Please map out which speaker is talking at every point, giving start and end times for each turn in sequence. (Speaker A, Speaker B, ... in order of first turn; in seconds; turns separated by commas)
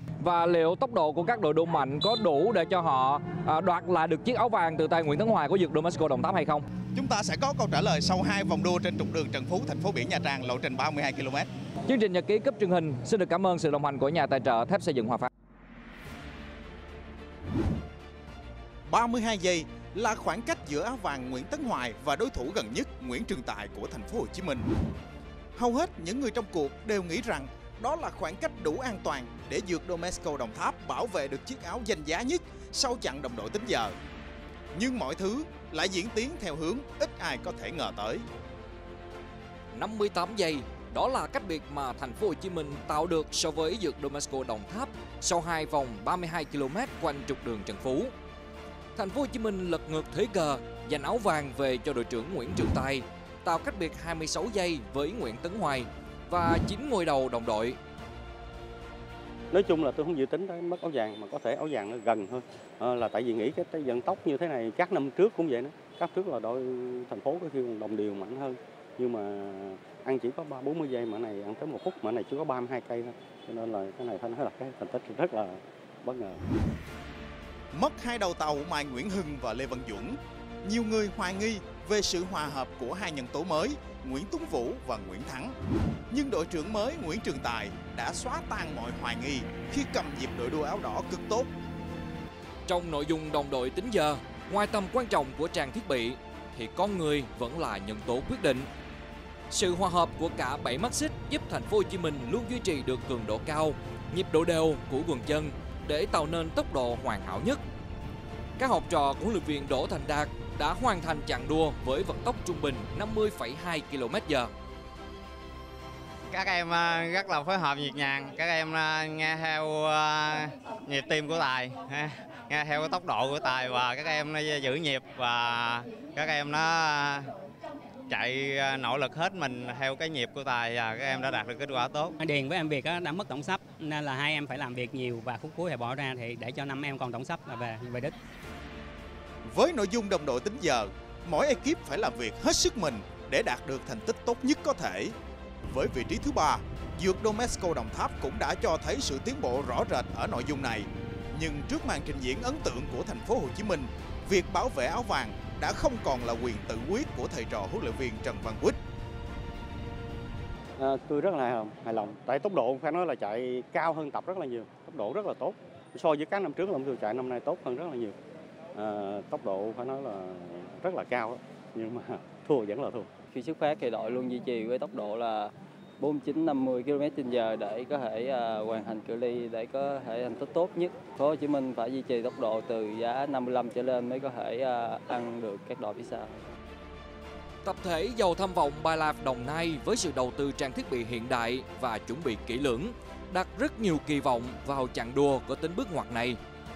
Speaker A: 0.2-6.6, Speaker B: 6.9-11.5, Speaker A: 11.8-15.3, Speaker B: 18.9-24.7, Speaker B: 25.6-33.9, Speaker B: 34.7-38.2, Speaker A: 39.7-48.1, Speaker A: 48.9-57.8, Speaker C: 59.5-76.4, Speaker B: 77.7-85.5, Speaker B: 86.1-91.5, Speaker A: 92.7-98.7, Speaker A: 99.5-107.6, Speaker A: 108.6-114.5, Speaker D: 116.3-127.3, Speaker D: 128.1-132.1, Speaker E: 132.2-138.1, Speaker B: 139.4-145.1, Speaker B: 145.7-158.8, Speaker C: 160.8-168.2, Speaker C: 168.7-173.1, Speaker F: 173.3-186.4, Speaker A: 187.6-196.4